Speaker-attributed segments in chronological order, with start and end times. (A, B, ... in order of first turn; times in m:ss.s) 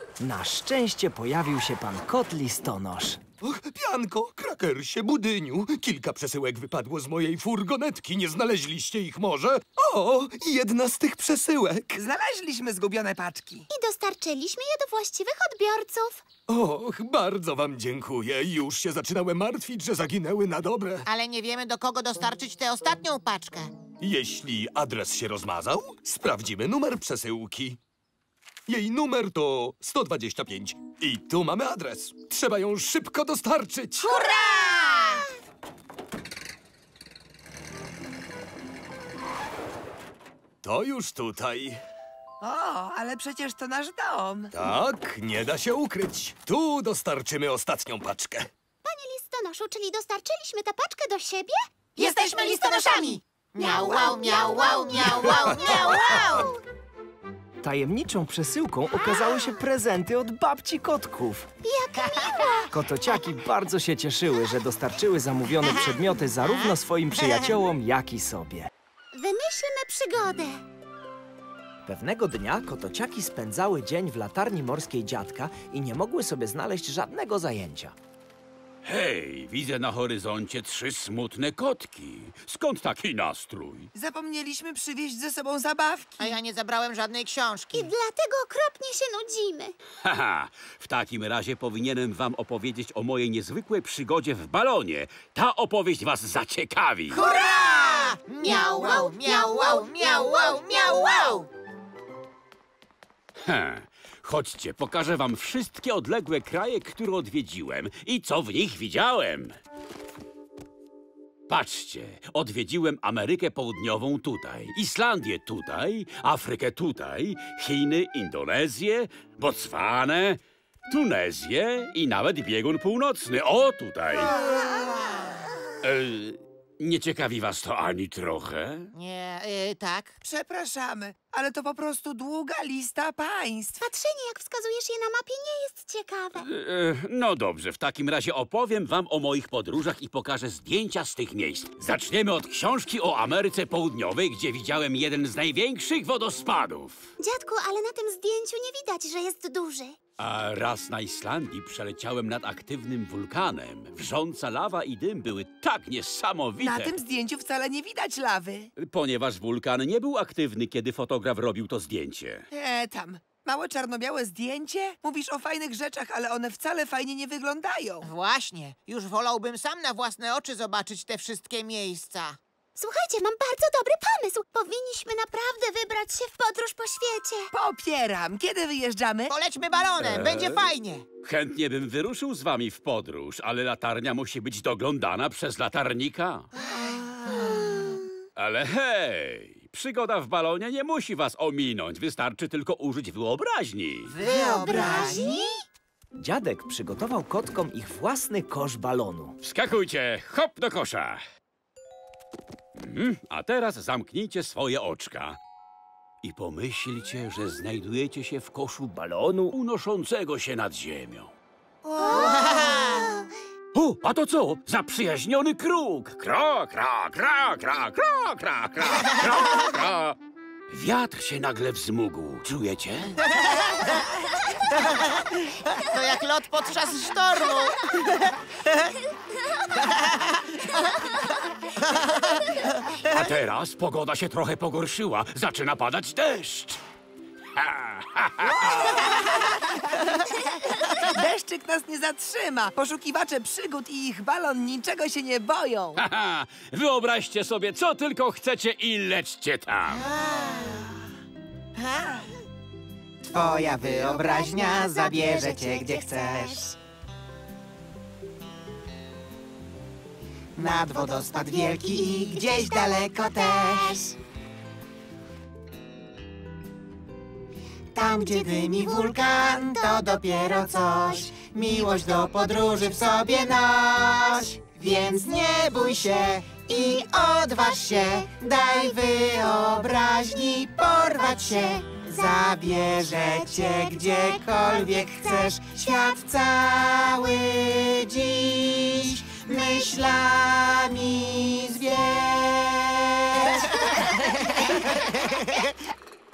0:00.2-0:03.2 A
0:03.4-0:12.0 B
0:12.0-0:13.7 C
0:13.7-0:16.2 D
0:16.5-0:21.1 B
0:21.1-0:23.7 E
0:24.0-0:27.8 B
0:28.7-0:34.1 B
0:34.0-0:35.2 E
0:40.6-0:41.8 B
0:42.4-0:44.5 C
0:44.5-0:48.5 B
0:48.8-0:56.6 D
0:52.0-0:56.5 E
0:57.6-1:01.5 A
1:01.6-1:02.7 D
1:02.7-1:08.7 A
1:07.2-1:07.5 E
1:09.1-1:10.6 D
1:11.8-1:18.0 A
1:18.8-1:23.9 F
1:23.9-1:26.2 C
1:26.2-1:27.9 E
1:27.7-1:29.8 D
1:30.0-1:37.2 F
1:37.1-1:41.5 E
1:38.4-1:40.2 D
1:43.4-1:49.5 F
1:51.5-2:04.3 F
2:04.2-2:05.4 E
2:05.8-2:08.9 F
2:08.9-2:10.2 E
2:10.2-2:13.8 C
2:13.8-2:16.5 D
2:16.4-2:27.1 F
2:27.2-2:30.0 D
2:30.2-2:37.0 F
2:36.6-2:38.7 C
2:38.8-2:42.4 F
2:42.5-2:48.1 C
2:48.0-2:52.4 E
2:52.8-2:57.5 D
2:57.5-2:59.3 C
2:59.3-3:01.0 E
3:00.0-3:00.7 F
3:01.2-3:06.5 F
3:06.6-3:08.0 E
3:08.4-3:14.2 F
3:14.1-3:15.6 E
3:14.5-3:15.5 D
3:16.2-3:19.4 A
3:19.4-3:21.2 F
3:22.8-3:25.4 F
3:26.2-3:31.3 F
3:32.0-3:33.2 E
3:32.0-3:32.7 D
3:33.7-3:40.2 F
3:40.7-3:43.1 F
3:45.8-3:48.9 E
3:49.8-3:50.8 E
3:51.8-3:52.5 E
3:53.1-3:56.8 F
3:57.6-3:59.0 F
3:58.4-4:06.0 C
4:06.0-4:10.0 F
4:09.9-4:11.0 E
4:11.8-4:12.2 E
4:13.2-4:16.6 E
4:14.1-4:16.8 D
4:20.6-4:24.2 E
4:28.0-4:55.8 E